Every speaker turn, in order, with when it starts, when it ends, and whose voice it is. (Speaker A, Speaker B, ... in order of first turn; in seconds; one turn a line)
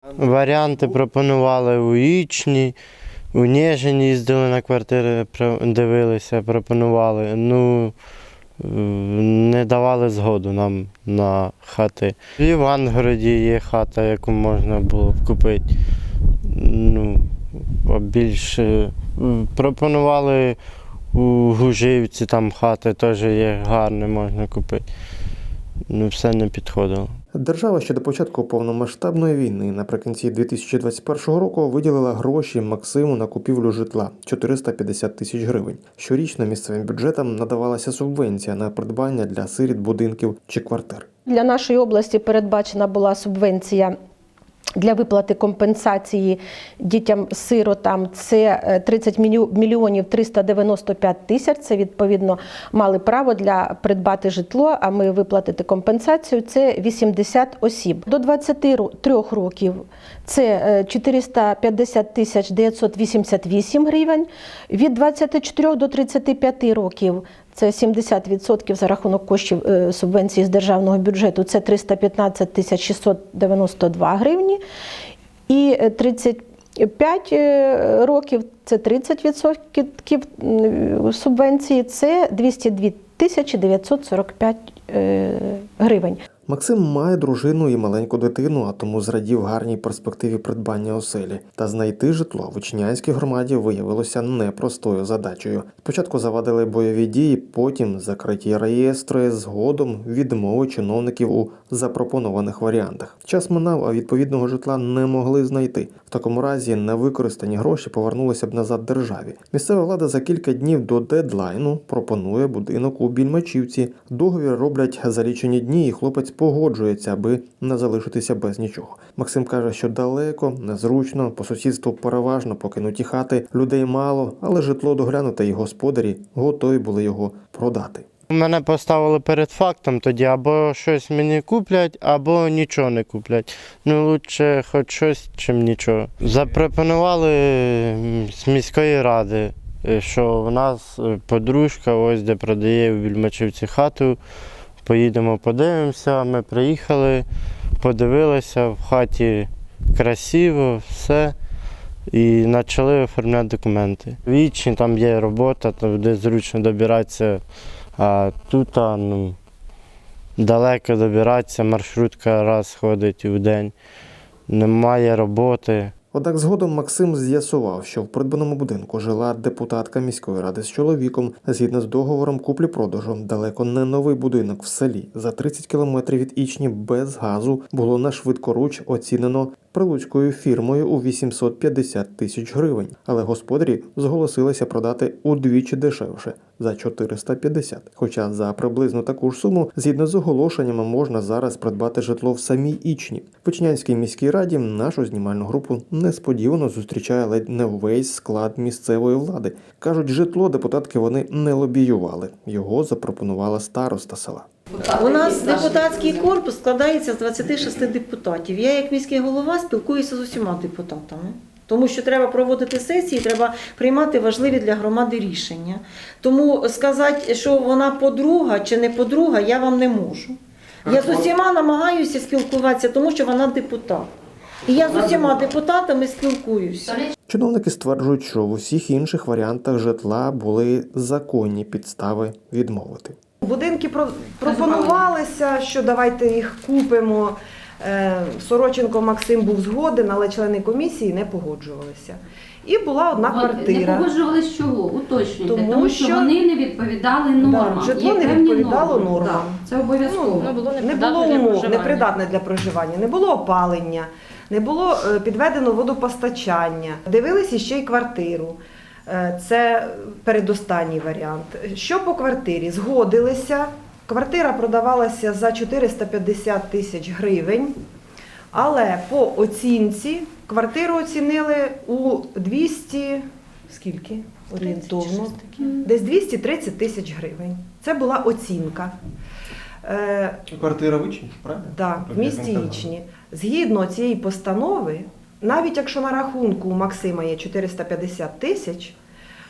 Speaker A: 0.2-2.8
Speaker A: 3.3-8.0
Speaker A: 8.6-15.7
Speaker A: 16.4-20.6
Speaker A: 21.1-24.9
Speaker A: 25.9-27.1
Speaker B: 27.3-41.1
Speaker C: 41.3-44.0
Speaker C: 44.8-74.6
Speaker C: 75.5-86.2
Speaker B: 86.5-128.1
Speaker A: 128.3-144.2
Speaker A: 144.8-147.2
Speaker A: 147.8-151.3
Speaker A: 152.1-157.4
Speaker A: 158.0-159.4
Speaker A: 160.4-163.8
Speaker A: 164.5-165.9
Speaker B: 166.1-204.5
Speaker D: 204.8-224.1
Speaker E: 205.1-205.5
Speaker D: 224.6-227.1
Speaker B: 227.3-233.2
Speaker F: 233.4-244.2
Speaker E: 243.2-252.1
Speaker F: 245.4-246.4
Speaker F: 247.4-267.8
Speaker F: 268.5-279.0
Speaker F: 279.8-280.4
Speaker B: 280.5-282.9
Speaker F: 281.7-289.0